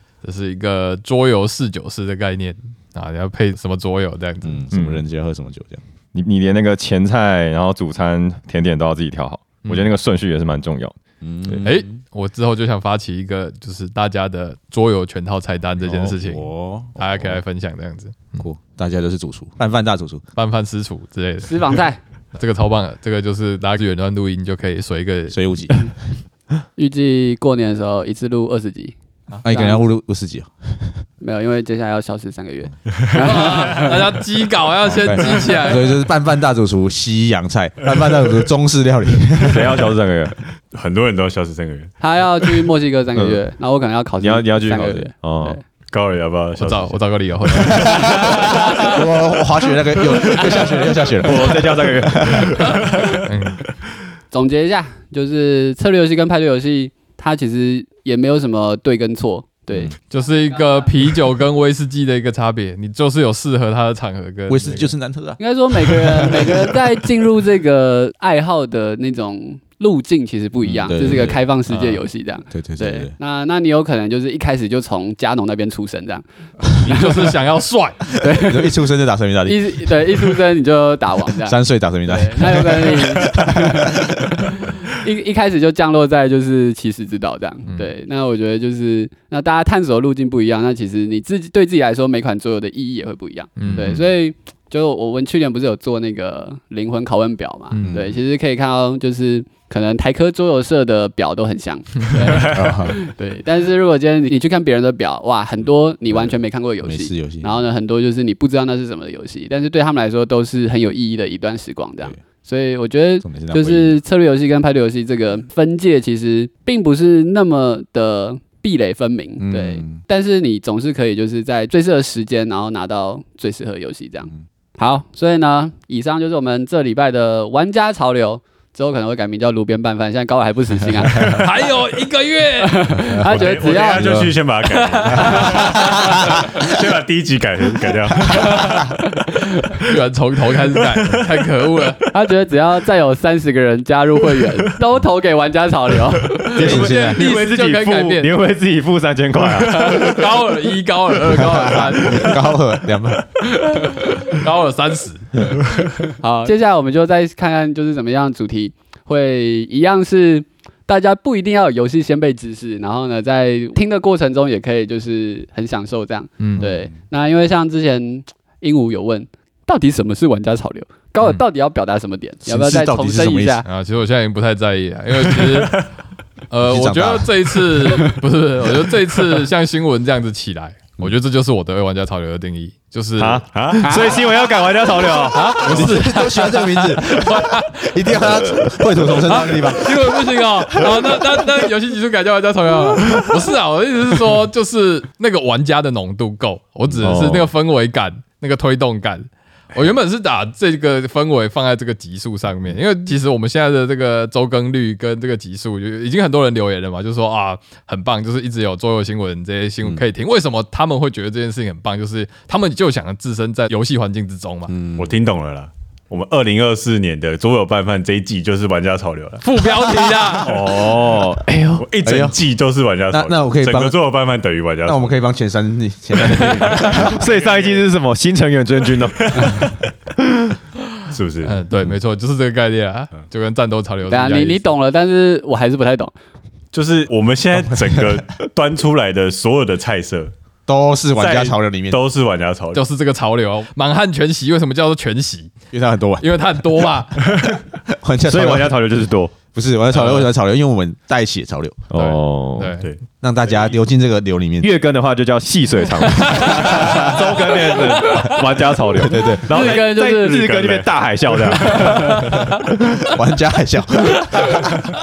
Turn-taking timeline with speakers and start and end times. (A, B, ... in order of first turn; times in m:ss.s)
0:00.2-0:04.7 A
0:04.4-0:05.8 B
0:04.7-0:05.0 C
0:06.1-0:11.0 C
0:11.2-0:11.9 B
0:11.6-0:18.4 A
0:15.8-0:17.4 B
0:18.4-0:20.2 B
0:20.4-0:21.8 A
0:21.4-0:22.0 D
0:22.3-0:25.4 A
0:25.3-0:25.9 B
0:26.8-0:29.8 D
0:29.4-0:31.0 B
0:31.2-0:34.2 D
0:33.2-0:36.0 A
0:34.8-0:39.9 B
0:39.4-0:40.4 C
0:40.7-0:42.6 E
0:42.0-0:45.6 D
0:43.2-0:43.4 C
0:44.2-0:45.6 C
0:45.9-0:47.0 E
0:46.6-0:48.2 A
0:47.7-0:52.8 B
0:47.8-0:49.0 D
0:51.2-0:53.2 C
0:53.2-0:53.6 A
0:54.3-1:00.0 D
1:00.1-1:04.9 A
1:04.5-1:06.7 B
1:05.4-1:17.3 D
1:10.6-1:11.4 B
1:11.7-1:12.0 A
1:12.5-1:13.1 B
1:16.8-1:18.1 A
1:18.2-1:18.8 D
1:18.2-1:20.4 B
1:19.4-2:11.5 D
1:21.4-1:24.5 B
1:33.6-1:34.0 A
1:33.7-1:34.0 B
1:37.7-1:38.0 A
1:37.8-1:38.2 B
1:42.2-1:42.7 E
1:42.4-1:43.0 B
1:46.1-1:47.6 B
1:53.2-1:54.0 B
1:59.4-2:00.0 B
2:11.2-2:13.2 A
2:12.6-2:14.3 D
2:13.2-2:18.8 E
2:14.0-2:14.3 B
2:14.8-2:16.4 A
2:15.1-2:15.9 D
2:18.4-2:18.8 A
2:19.8-2:22.0 A
2:22.1-2:26.9 D
2:26.5-2:28.3 A
2:26.6-2:27.2 B
2:26.6-2:30.2 C
2:29.6-2:32.5 A
2:31.3-2:33.5 B
2:33.8-2:35.6 A
2:36.2-2:53.7 D
2:46.4-2:46.7 A
2:46.6-2:46.9 B
2:52.4-2:53.6 B
2:53.6-2:55.9 A
2:55.3-2:55.9 E
2:56.5-3:03.4 A
2:56.6-2:57.7 B
3:03.2-3:06.0 C
3:03.5-3:04.0 E
3:03.8-3:04.2 D
3:05.3-3:08.2 A
3:05.6-3:11.4 B
3:09.2-3:34.7 A
3:17.0-3:17.5 C
3:34.7-3:35.1 B
3:35.0-3:45.2 E
3:39.4-3:40.5 A
3:40.6-3:41.9 C
3:42.0-3:42.4 B
3:43.1-3:44.0 B
3:44.8-3:47.3 B
3:46.4-3:47.1 A
3:47.1-3:50.6 C
3:47.4-3:47.8 E
3:49.2-3:49.8 E
3:51.1-3:51.6 E
3:51.4-3:54.7 A
3:54.1-3:56.1 D
3:56.7-4:00.3 E
3:57.7-3:58.2 B
4:00.7-4:02.0 B
4:01.2-4:02.8 E
4:02.7-4:05.5 A
4:05.7-4:06.3 B
4:06.2-4:07.2 A
4:07.9-4:08.8 B
4:08.3-4:09.4 C
4:09.5-4:11.9 B
4:09.9-4:10.3 A
4:11.9-4:12.8 C
4:11.9-4:12.8 A
4:12.8-4:13.7 E
4:13.2-4:14.7 B
4:14.6-4:23.1 C
4:16.1-4:17.1 A
4:16.7-4:17.1 B
4:18.9-4:19.5 B
4:19.5-4:20.8 D
4:23.1-4:24.7 B